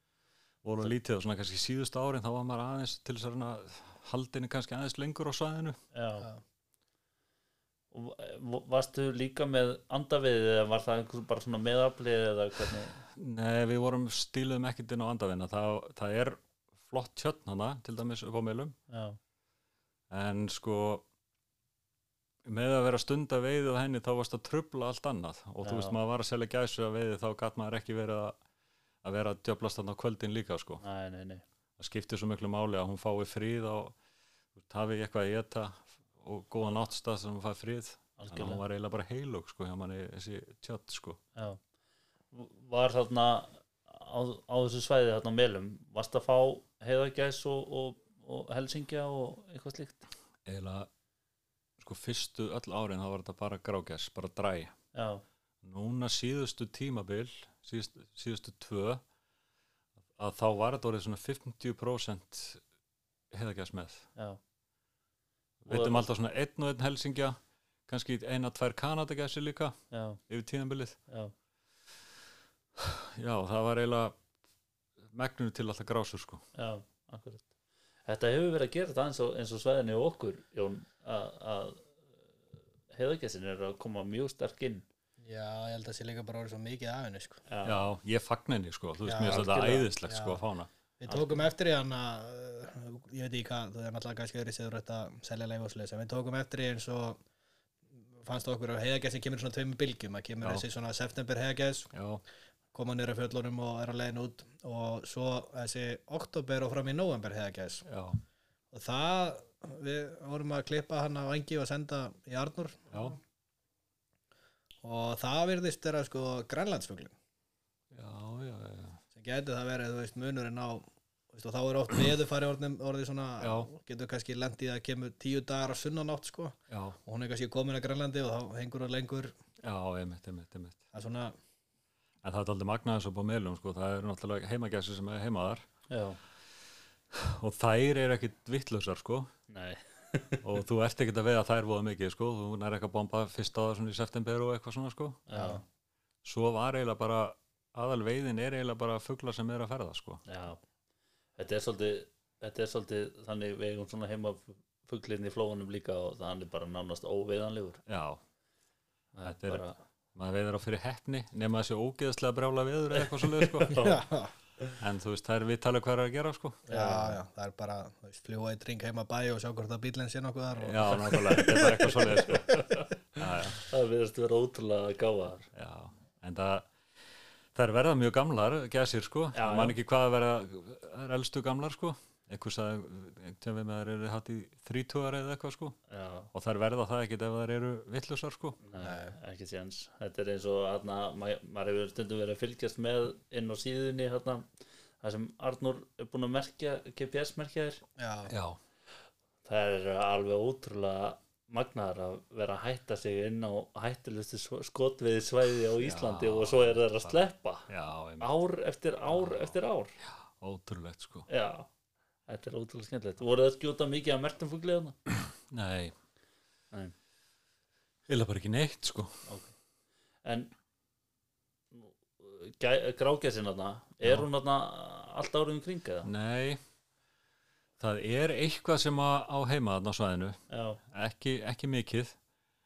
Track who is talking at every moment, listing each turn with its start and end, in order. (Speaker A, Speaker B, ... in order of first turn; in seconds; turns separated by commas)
Speaker A: 0.6-5.8, Speaker B: 5.9-6.3, Speaker B: 7.9-13.0, Speaker A: 13.1-18.8, Speaker B: 18.9-19.2, Speaker A: 20.1-21.1, Speaker A: 22.4-28.4, Speaker B: 25.6-26.0, Speaker A: 29.0-30.8, Speaker B: 30.8-31.4, Speaker A: 31.8-34.0, Speaker A: 34.5-41.2, Speaker B: 38.2-38.6, Speaker B: 42.3-50.0, Speaker A: 50.5-50.9, Speaker A: 51.8-54.7, Speaker B: 54.9-55.2, Speaker A: 55.6-59.0, Speaker A: 60.1-62.6, Speaker A: 63.3-64.1, Speaker A: 65.6-69.8, Speaker B: 65.7-66.0, Speaker B: 69.9-70.2, Speaker A: 70.3-71.0, Speaker A: 72.8-74.2, Speaker A: 75.1-76.4, Speaker B: 76.5-77.5, Speaker B: 78.0-81.9, Speaker B: 82.9-84.8, Speaker C: 85.2-87.4, Speaker B: 87.5-87.8, Speaker A: 87.6-90.7, Speaker C: 89.0-90.4, Speaker B: 89.2-89.9, Speaker C: 91.0-97.2, Speaker B: 91.1-91.4, Speaker C: 98.2-101.9, Speaker A: 101.9-102.2, Speaker C: 102.7-107.8, Speaker A: 107.8-108.2, Speaker C: 108.7-113.1, Speaker A: 112.9-113.2, Speaker C: 114.8-117.1, Speaker A: 117.9-119.0, Speaker C: 119.1-129.3, Speaker A: 123.4-123.7, Speaker A: 126.7-127.0, Speaker A: 129.6-130.8, Speaker C: 130.9-131.3, Speaker A: 132.2-135.7, Speaker B: 135.9-136.2, Speaker A: 137.1-139.3, Speaker B: 139.5-140.5, Speaker A: 140.4-145.3, Speaker B: 145.3-145.6, Speaker C: 145.3-145.6, Speaker A: 146.2-150.2, Speaker B: 150.2-150.6, Speaker B: 151.3-157.8, Speaker A: 157.8-158.2, Speaker B: 159.1-159.8, Speaker A: 159.2-163.9, Speaker B: 162.9-164.0, Speaker C: 163.7-164.3, Speaker A: 164.8-166.7, Speaker C: 166.7-171.7, Speaker B: 166.7-167.2, Speaker A: 170.6-172.6, Speaker B: 171.0-172.9, Speaker A: 173.2-173.6, Speaker B: 173.5-175.5, Speaker A: 175.5-176.7, Speaker A: 177.5-185.8, Speaker B: 179.3-179.8, Speaker B: 185.9-186.3, Speaker A: 186.3-188.6, Speaker B: 188.6-194.5, Speaker C: 188.8-189.2, Speaker B: 195.0-197.8, Speaker C: 198.0-198.3, Speaker A: 198.3-198.6, Speaker B: 199.4-207.7, Speaker A: 205.8-208.3, Speaker B: 208.2-209.9, Speaker A: 209.1-211.3, Speaker B: 211.3-211.7, Speaker B: 212.3-215.0, Speaker A: 215.5-215.9, Speaker A: 218.1-219.2, Speaker B: 219.2-219.5, Speaker B: 220.2-220.5, Speaker B: 221.7-226.1, Speaker A: 226.0-226.6, Speaker A: 227.8-232.2, Speaker B: 230.5-230.8